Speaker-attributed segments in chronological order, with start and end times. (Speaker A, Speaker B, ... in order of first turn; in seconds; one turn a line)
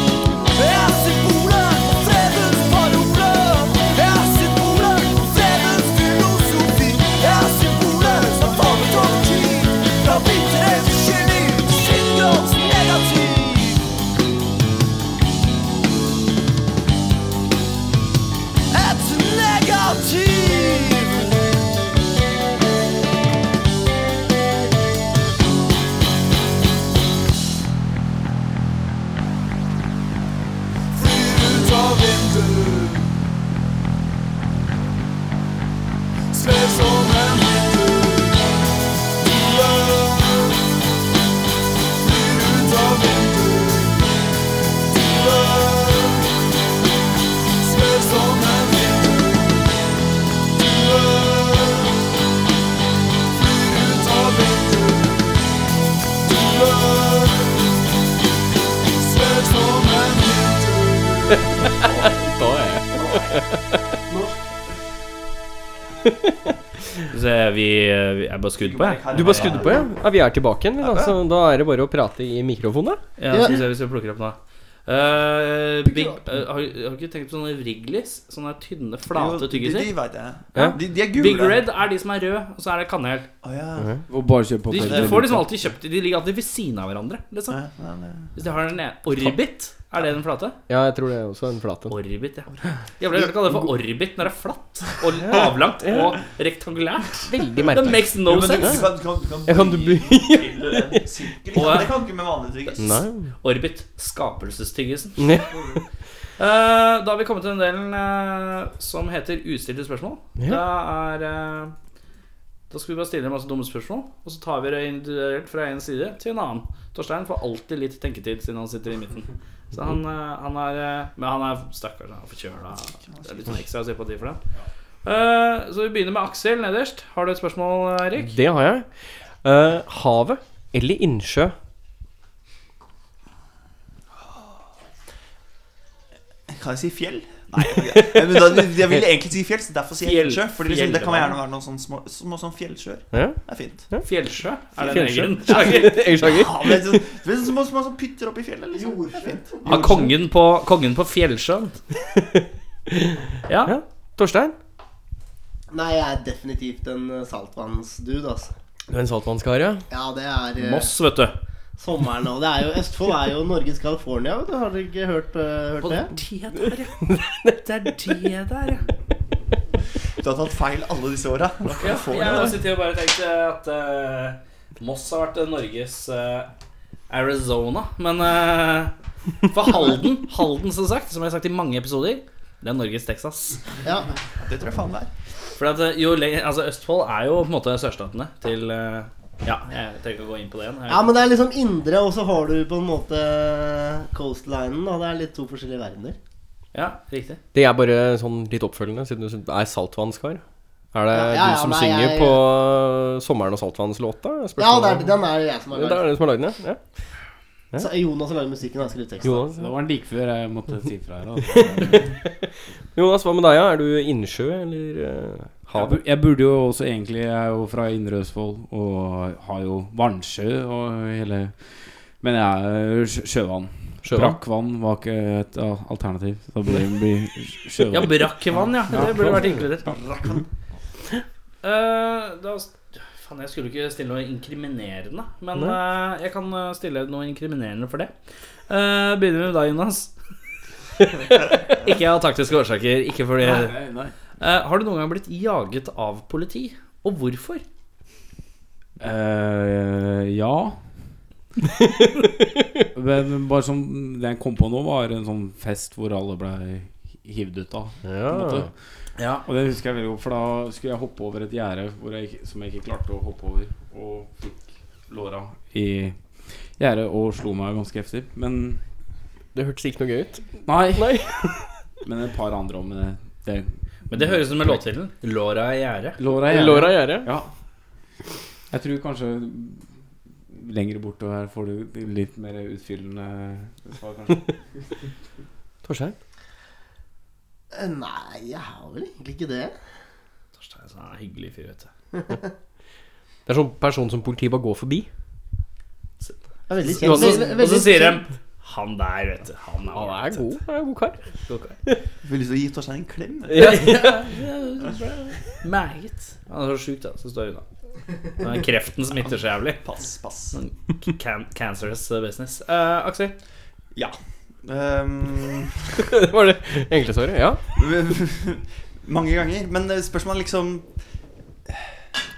Speaker A: 0.5-13.8
Speaker A: 18.7-21.4
Speaker A: 31.2-32.1
Speaker B: 61.3-63.8
Speaker C: 61.8-62.1
Speaker D: 64.1-64.4
Speaker E: 67.1-69.7
Speaker C: 68.6-69.9
Speaker B: 69.1-73.0
Speaker C: 70.8-71.2
Speaker E: 73.2-74.4
Speaker D: 73.3-73.6
Speaker E: 74.9-79.9
Speaker C: 79.1-81.6
Speaker E: 81.1-83.3
Speaker C: 83.4-84.0
Speaker B: 83.8-84.0
Speaker F: 84.1-85.5
Speaker E: 84.7-87.6
Speaker C: 84.8-85.2
Speaker C: 87.5-88.3
Speaker E: 88.3-90.5
Speaker B: 90.7-92.0
Speaker E: 91.9-98.8
Speaker B: 95.3-96.1
Speaker B: 97.3-98.9
Speaker C: 98.2-103.0
Speaker B: 99.5-101.0
Speaker E: 101.5-101.9
Speaker B: 102.8-103.3
Speaker E: 103.4-105.4
Speaker B: 105.2-105.5
Speaker C: 105.5-105.8
Speaker E: 106.4-111.7
Speaker B: 110.4-110.6
Speaker E: 112.7-124.4
Speaker C: 123.2-123.5
Speaker E: 125.0-128.3
Speaker B: 128.2-131.6
Speaker C: 136.5-143.8
Speaker B: 138.2-139.0
Speaker E: 140.0-141.4
Speaker B: 143.1-144.1
Speaker E: 144.0-146.0
Speaker B: 144.8-147.0
Speaker C: 145.5-150.1
Speaker D: 148.7-150.1
Speaker E: 149.7-151.8
Speaker B: 152.2-154.6
Speaker E: 153.5-153.8
Speaker D: 155.7-158.5
Speaker B: 158.9-159.8
Speaker D: 159.9-160.9
Speaker E: 160.6-161.3
Speaker D: 161.8-166.1
Speaker E: 165.8-168.9
Speaker B: 167.0-167.6
Speaker C: 170.2-172.6
Speaker E: 171.7-176.5
Speaker E: 177.1-183.6
Speaker C: 184.4-185.1
Speaker E: 185.6-191.1
Speaker D: 190.9-196.2
Speaker E: 196.7-197.4
Speaker B: 197.5-205.2
Speaker D: 201.1-202.4
Speaker D: 204.6-206.1
Speaker B: 205.7-206.8
Speaker D: 207.8-209.4
Speaker B: 209.2-209.7
Speaker F: 209.4-212.2
Speaker B: 212.0-216.0
Speaker F: 215.7-221.6
Speaker F: 222.2-228.3
Speaker B: 224.0-224.4
Speaker E: 227.9-230.3
Speaker F: 229.0-229.3
Speaker E: 231.6-238.1
Speaker E: 238.7-240.1
Speaker E: 241.4-243.8
Speaker F: 243.4-244.1
Speaker E: 244.4-247.6
Speaker F: 249.0-250.8
Speaker F: 252.9-258.7
Speaker B: 258.1-258.7
Speaker E: 259.2-259.4
Speaker F: 259.4-266.2
Speaker F: 266.8-268.8
Speaker B: 269.6-271.7
Speaker F: 270.7-271.2
Speaker F: 272.0-274.8
Speaker E: 274.1-276.2
Speaker F: 276.2-277.5
Speaker B: 276.5-277.3
Speaker F: 278.7-279.8
Speaker F: 280.5-284.5
Speaker B: 285.8-286.2
Speaker D: 287.7-289.7
Speaker E: 290.6-291.9
Speaker B: 293.5-295.1
Speaker E: 296.2-300.6
Speaker D: 296.7-298.2
Speaker B: 297.0-297.5
Speaker B: 299.9-301.2
Speaker E: 301.5-301.8
Speaker C: 302.2-303.8
Speaker B: 303.5-304.2
Speaker E: 303.6-307.6
Speaker E: 308.4-309.8
Speaker C: 309.2-310.6
Speaker E: 310.5-313.4
Speaker C: 313.9-316.1
Speaker B: 316.1-317.6
Speaker C: 317.8-320.9